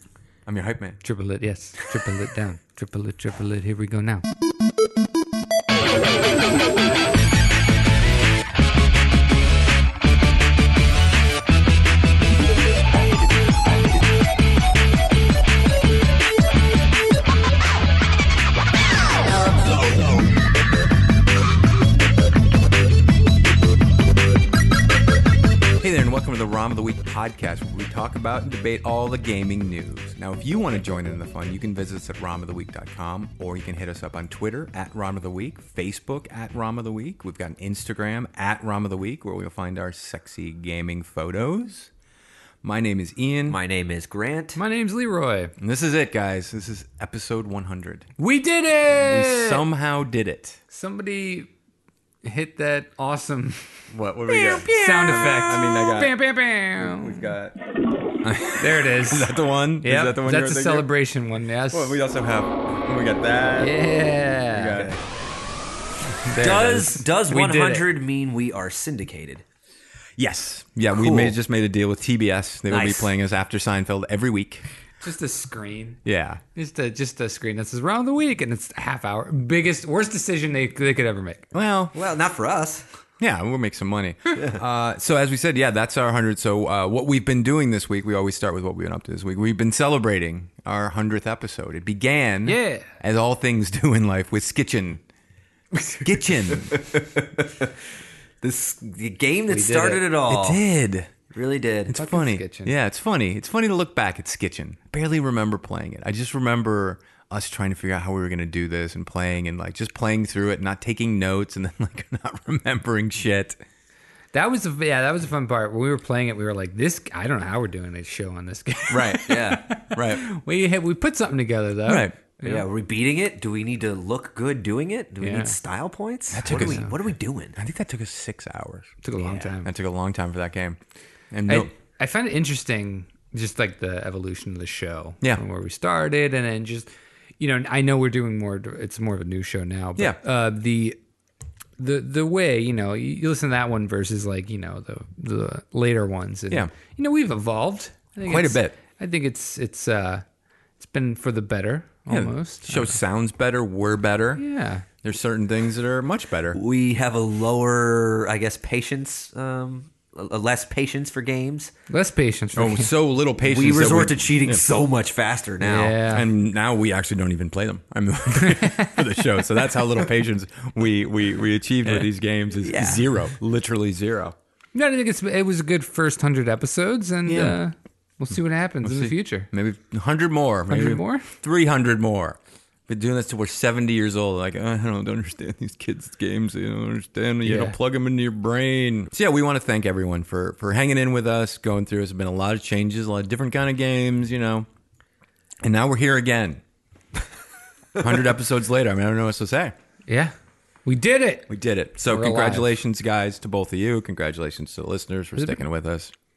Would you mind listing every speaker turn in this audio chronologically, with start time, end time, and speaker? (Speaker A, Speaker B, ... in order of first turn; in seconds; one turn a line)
Speaker A: 0.5-1.0
Speaker B: 1.0-4.2
Speaker A: 25.8-41.9
Speaker A: 42.6-43.6
Speaker C: 43.5-44.6
Speaker B: 44.6-45.5
Speaker A: 45.6-48.1
Speaker B: 48.2-49.7
Speaker A: 48.9-50.6
Speaker B: 50.7-51.5
Speaker B: 52.2-57.3
Speaker A: 53.9-56.1
Speaker A: 56.9-57.5
Speaker A: 58.2-60.9
Speaker B: 58.6-62.0
Speaker A: 61.7-63.8
Speaker B: 63.6-64.9
Speaker A: 64.5-65.0
Speaker B: 66.2-67.9
Speaker C: 66.4-69.4
Speaker A: 70.2-74.6
Speaker C: 70.9-71.4
Speaker C: 72.7-73.1
Speaker B: 75.0-76.0
Speaker A: 76.0-76.4
Speaker B: 76.5-81.5
Speaker A: 81.5-82.0
Speaker C: 81.9-82.8
Speaker A: 83.2-95.0
Speaker C: 84.3-84.6
Speaker B: 92.5-92.9
Speaker A: 96.0-96.8
Speaker C: 96.7-97.8
Speaker C: 98.4-100.6
Speaker B: 99.5-100.0
Speaker A: 100.3-101.1
Speaker C: 101.3-101.9
Speaker A: 101.9-113.6
Speaker B: 102.0-102.7
Speaker B: 114.3-122.7
Speaker A: 118.9-120.3
Speaker C: 119.3-119.7
Speaker A: 121.9-122.2
Speaker C: 122.4-127.6
Speaker B: 125.2-125.6
Speaker A: 126.3-130.8
Speaker B: 126.5-126.9
Speaker B: 129.0-129.7
Speaker A: 131.3-131.7
Speaker B: 131.5-141.0
Speaker B: 141.8-150.2
Speaker A: 148.2-148.8
Speaker B: 150.8-153.0
Speaker A: 152.1-154.4
Speaker B: 154.4-154.8
Speaker A: 155.0-156.6
Speaker C: 156.5-161.7
Speaker B: 161.9-162.9
Speaker A: 162.6-164.6
Speaker C: 163.4-166.0
Speaker B: 165.6-166.3
Speaker A: 166.1-174.3
Speaker B: 168.3-169.8
Speaker C: 172.6-173.0
Speaker B: 174.7-179.5
Speaker A: 177.3-177.6
Speaker A: 178.8-194.7
Speaker B: 180.7-181.3
Speaker B: 187.4-187.8
Speaker A: 195.6-196.6
Speaker A: 198.0-199.7
Speaker B: 200.1-200.3
Speaker B: 200.9-202.8
Speaker A: 201.5-206.1